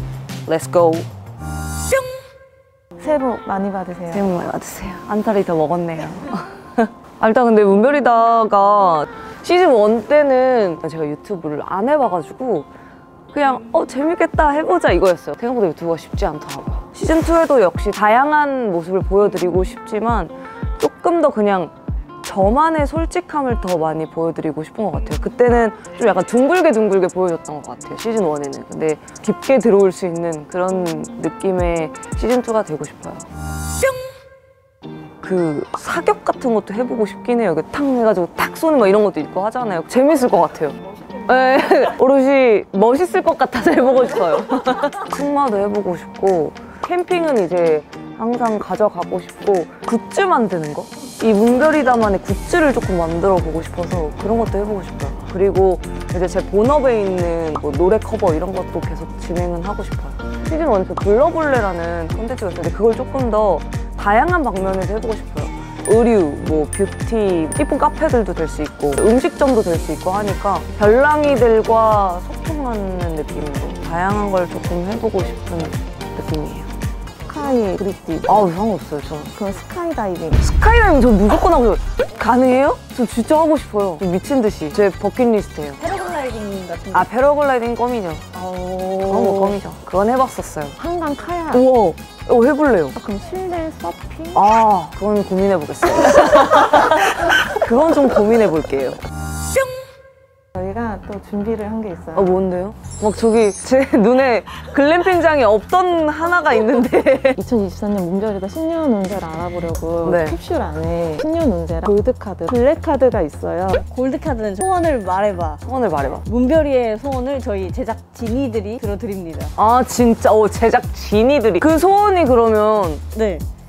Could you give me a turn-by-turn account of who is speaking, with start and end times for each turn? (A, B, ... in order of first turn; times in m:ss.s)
0:00.5-0:01.1 A
0:03.0-0:04.3 B
0:04.1-0:12.7 A
0:13.3-0:33.3 A
0:35.2-1:16.7 A
1:17.3-1:18.5 B
1:18.2-1:19.4 A
1:19.4-1:20.4 B
1:20.4-1:25.8 A
1:25.8-1:27.1 C
1:26.9-1:30.8 A
1:29.1-1:29.6 C
1:30.8-1:31.6 B
1:31.5-1:33.0 A
1:33.0-1:34.4 B
1:34.3-1:39.0 A
1:40.6-1:42.4 B
1:42.2-1:47.4 A
1:47.4-1:53.8 B
1:50.0-1:50.4 A
1:53.8-1:55.6 C
1:55.6-1:56.3 A
1:56.2-1:59.5 C
1:59.6-2:03.0 A
2:03.1-2:03.4 C